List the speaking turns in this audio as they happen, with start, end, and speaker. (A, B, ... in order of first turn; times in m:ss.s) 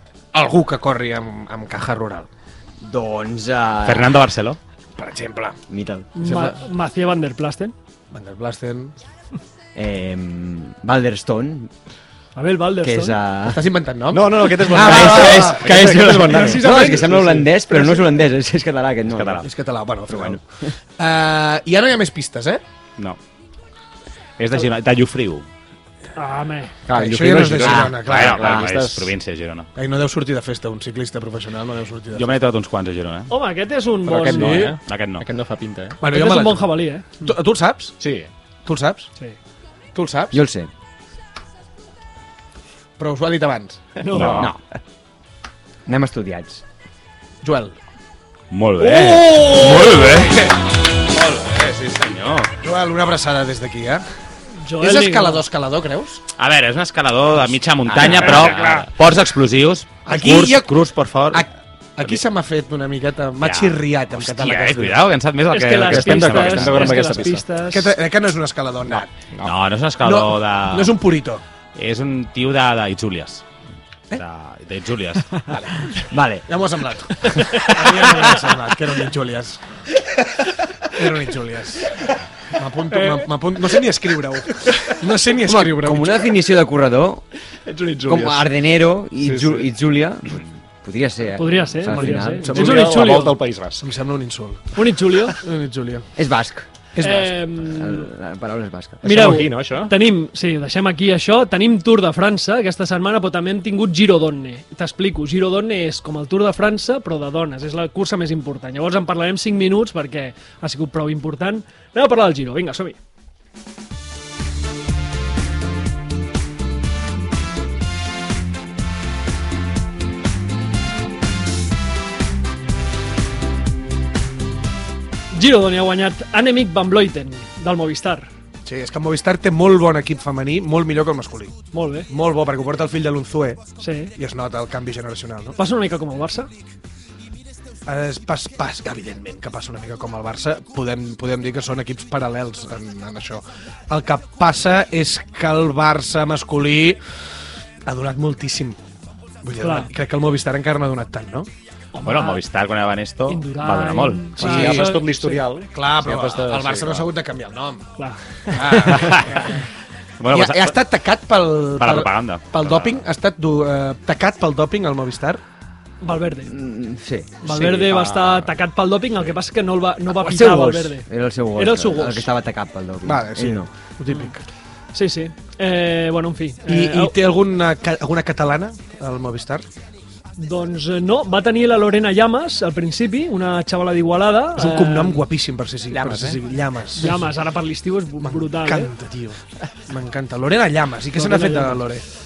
0:00.3-0:02.3 A
0:02.8-0:04.2 B
0:03.8-0:04.6 C
0:05.0-0:05.6 A
0:05.7-0:06.1 B
0:06.1-0:07.7 D
0:06.2-0:06.6 A
0:08.1-0:08.9 A
0:09.7-0:11.7 B
0:12.4-0:13.2 D
0:12.8-0:13.6 B
0:13.5-0:15.6 A
0:14.1-0:16.7 E
0:14.6-0:19.5 B
0:16.2-0:18.0 D
0:16.7-0:17.4 A
0:19.1-0:19.5 C
0:19.4-0:20.4 A
0:20.1-0:20.7 B
0:21.0-0:22.6 A
0:24.4-0:25.4 C
0:26.2-0:26.8 D
0:26.8-0:29.1 E
0:26.9-0:28.4 A
0:27.6-0:28.7 B
0:28.0-0:29.7 C
0:29.8-0:32.4 A
0:32.1-0:33.3 C
0:33.3-0:34.7 D
0:34.0-0:36.0 E
0:34.3-0:34.8 A
0:34.8-0:35.2 C
0:36.0-0:36.7 A
0:36.1-0:37.3 D
0:37.2-0:38.0 A
0:38.0-0:38.3 E
0:38.6-0:39.1 A
0:39.9-0:40.4 A
0:40.3-0:40.7 B
0:43.0-0:43.8 A
0:44.0-0:44.5 D
0:44.0-0:44.5 E
0:44.2-0:44.6 B
0:45.8-0:46.6 B
0:47.4-0:47.8 A
0:48.5-0:50.5 C
0:48.8-0:50.5 A
0:49.3-0:49.8 D
0:51.1-0:52.5 C
0:52.6-0:54.0 A
0:54.6-0:55.4 D
0:54.8-0:56.2 A
0:56.4-1:01.4 C
0:57.9-0:58.8 E
0:58.0-0:58.5 A
1:00.0-1:00.7 A
1:01.3-1:05.0 A
1:03.4-1:07.2 C
1:05.5-1:07.9 D
1:05.8-1:07.4 E
1:07.7-1:09.1 A
1:09.4-1:11.0 C
1:10.0-1:11.4 A
1:11.7-1:13.4 C
1:14.1-1:15.4 C
1:15.5-1:16.0 A
1:16.0-1:16.5 B
1:16.5-1:22.0 A
1:22.5-1:26.3 A
1:22.9-1:23.2 D
1:25.4-1:27.2 B
1:27.6-1:28.4 E
1:28.0-1:32.5 B
1:29.2-1:29.7 E
1:31.4-1:33.4 D
1:31.8-1:36.1 A
1:32.4-1:33.8 E
1:34.7-1:35.4 D
1:36.2-1:36.6 B
1:37.0-1:37.3 A
1:37.0-1:38.1 D
1:37.6-1:39.0 B
1:39.0-1:39.9 E
1:39.0-1:53.0 D
2:05.3-2:08.3 D
2:08.6-2:11.6 A
2:11.7-2:12.1 D
2:12.1-2:13.6 A
2:13.8-2:14.1 D
2:14.2-2:15.6 A
2:15.6-2:16.5 D
2:17.8-2:27.0 A
2:27.8-2:28.8 A
2:29.4-2:31.5 A
2:29.6-2:29.9 D
2:31.9-2:32.4 D
2:32.0-2:34.5 C
2:33.3-2:35.4 D
2:34.4-2:35.0 A
2:34.4-2:37.1 E
2:35.7-2:37.9 A
2:38.0-2:38.7 D
2:38.5-2:39.6 A
2:38.8-2:39.4 C
2:39.2-2:39.5 D
2:40.2-2:40.8 C
2:40.3-2:45.4 A
2:41.8-2:43.0 C
2:46.0-2:46.6 D
2:46.4-2:47.7 B
2:47.4-2:52.3 D
2:47.6-2:48.4 E
2:50.1-2:50.9 A
2:50.5-2:53.7 B
2:53.0-2:54.4 A
2:54.9-2:57.1 D
2:56.7-2:59.6 A
3:00.4-3:05.2 D
3:04.6-3:07.2 A
3:05.9-3:06.4 E
3:06.9-3:08.9 D
3:08.2-3:12.0 A
3:11.2-3:11.9 D